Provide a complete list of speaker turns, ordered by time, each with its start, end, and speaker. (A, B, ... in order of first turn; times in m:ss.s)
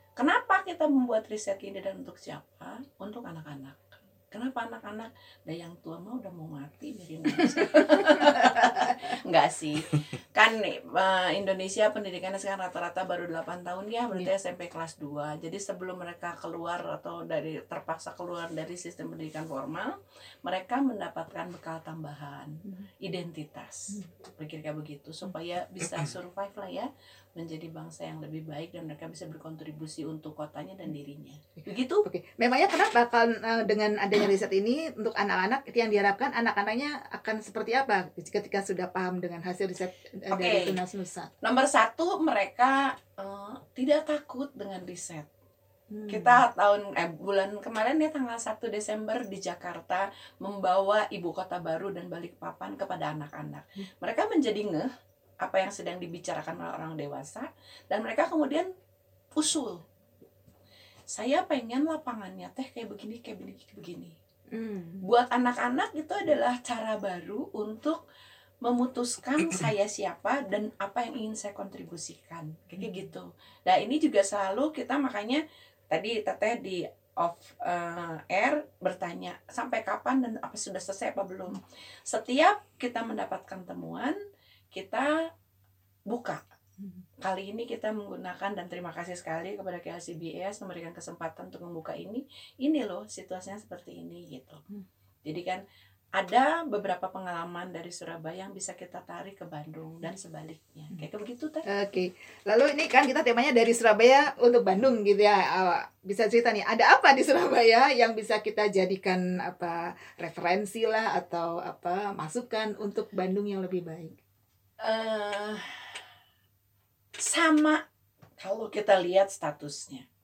0:00.2-0:32.0 A
0:07.6-0:09.0 B
0:31.6-0:41.3 B
0:40.3-0:40.8 A
0:41.4-0:45.3 A
0:45.9-0:46.4 B
0:46.1-0:54.9 A
0:55.4-0:58.7 A
0:59.4-0:59.8 A
1:01.1-1:04.2 A
1:04.5-1:05.0 B
1:05.0-1:08.0 A
1:08.6-1:24.2 A
1:24.7-1:25.1 A
1:26.1-1:26.4 A
1:27.2-1:34.6 A
1:35.2-1:35.6 A
1:36.2-1:41.6 A
1:41.7-1:54.2 B
1:54.8-1:56.0 A
1:57.2-1:57.8 A
1:58.4-2:00.0 A